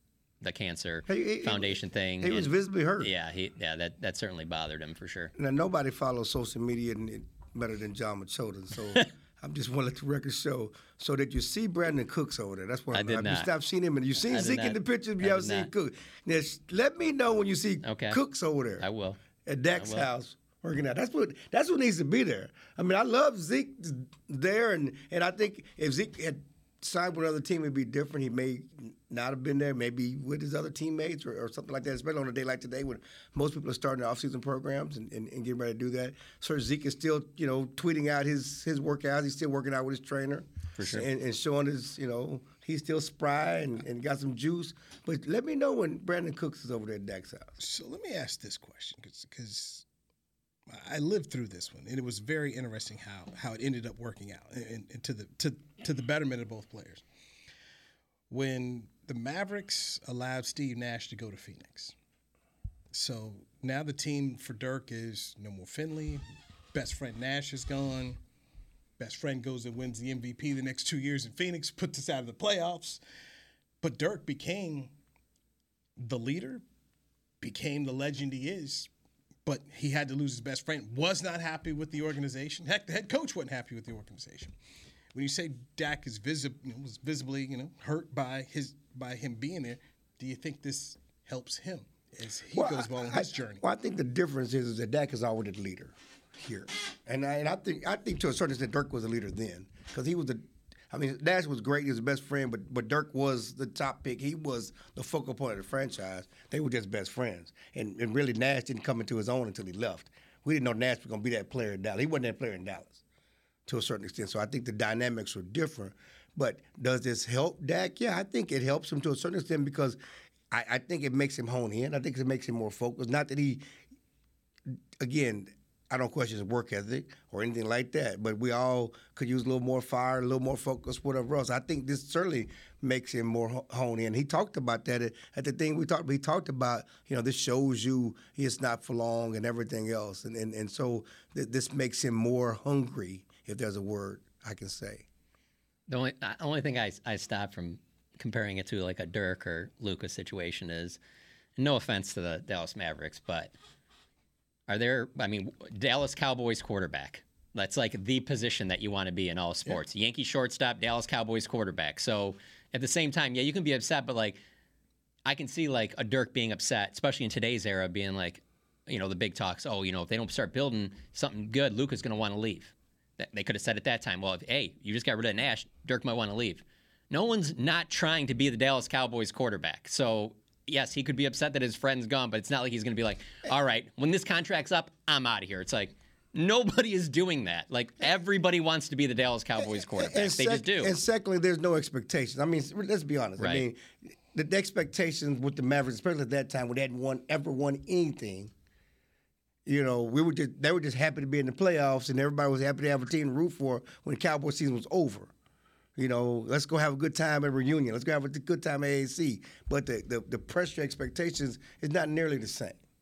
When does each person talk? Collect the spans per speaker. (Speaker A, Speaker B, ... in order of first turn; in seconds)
Speaker A: 0.4-5.3, 12.9-13.5, 14.3-15.7, 17.8-18.2, 18.8-19.2, 19.8-20.1, 40.8-41.1, 145.9-151.0, 151.6-153.5, 154.7-164.4, 165.3-191.0, 193.4-193.7
Speaker B: 1.1-3.1, 5.4-18.9, 19.4-47.5, 92.5-113.0, 113.7-120.0, 120.5-123.6, 125.0-145.1, 189.6-198.5, 199.7-205.3, 206.0-212.8
Speaker C: 47.6-49.8, 50.7-57.0, 58.3-61.9, 62.9-68.2, 69.0-73.0, 73.8-74.9, 76.0-76.6, 77.4-78.9, 79.5-84.5, 85.1-93.6